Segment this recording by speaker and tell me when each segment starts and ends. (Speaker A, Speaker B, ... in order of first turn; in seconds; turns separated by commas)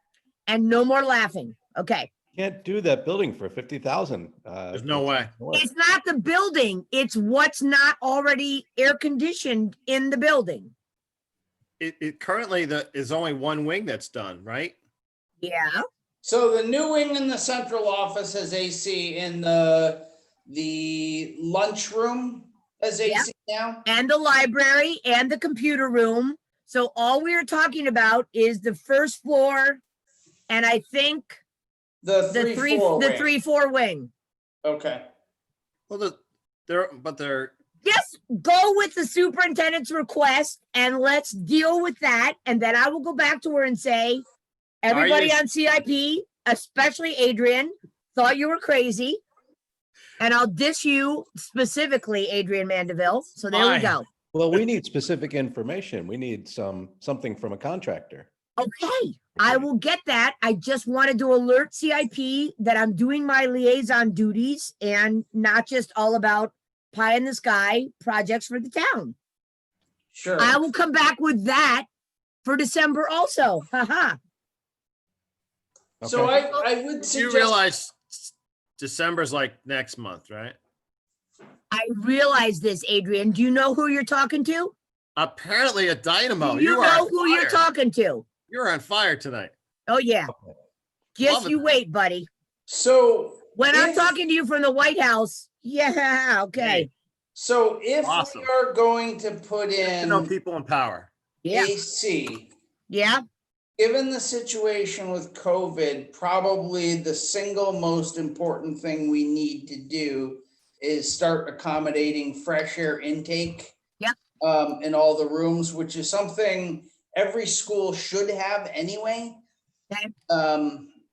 Speaker A: 0.5-2.1, Speaker B: 2.3-5.7, Speaker C: 4.7-5.3, Speaker A: 5.5-10.7, Speaker C: 11.8-14.8, Speaker A: 15.4-15.8, Speaker D: 16.2-23.8, Speaker A: 23.8-29.8, Speaker A: 30.5-31.4, Speaker D: 32.0-33.3, Speaker A: 32.3-34.1, Speaker D: 34.6-35.0, Speaker C: 35.9-37.5, Speaker A: 37.8-44.2, Speaker A: 44.8-49.2, Speaker C: 44.9-45.4, Speaker A: 50.2-54.0, Speaker C: 53.5-54.0, Speaker B: 54.3-58.3, Speaker A: 58.6-69.1, Speaker D: 70.1-70.6, Speaker A: 70.4-71.8, Speaker A: 72.4-74.2, Speaker B: 76.0-76.5, Speaker D: 76.0-77.6, Speaker C: 77.0-80.6, Speaker A: 81.7-84.7, Speaker C: 85.2-87.6, Speaker A: 86.4-88.2, Speaker C: 88.5-89.5, Speaker A: 89.9-90.3, Speaker A: 91.2-92.3, Speaker C: 91.2-91.7, Speaker D: 92.7-94.1, Speaker A: 93.5-96.9, Speaker C: 96.6-96.9, Speaker D: 97.3-100.3, Speaker C: 98.0-98.5, Speaker C: 99.8-101.1, Speaker A: 101.4-101.7, Speaker D: 101.5-102.5, Speaker A: 102.9-103.2, Speaker D: 103.8-113.7, Speaker D: 114.4-119.4, Speaker D: 120.3-120.9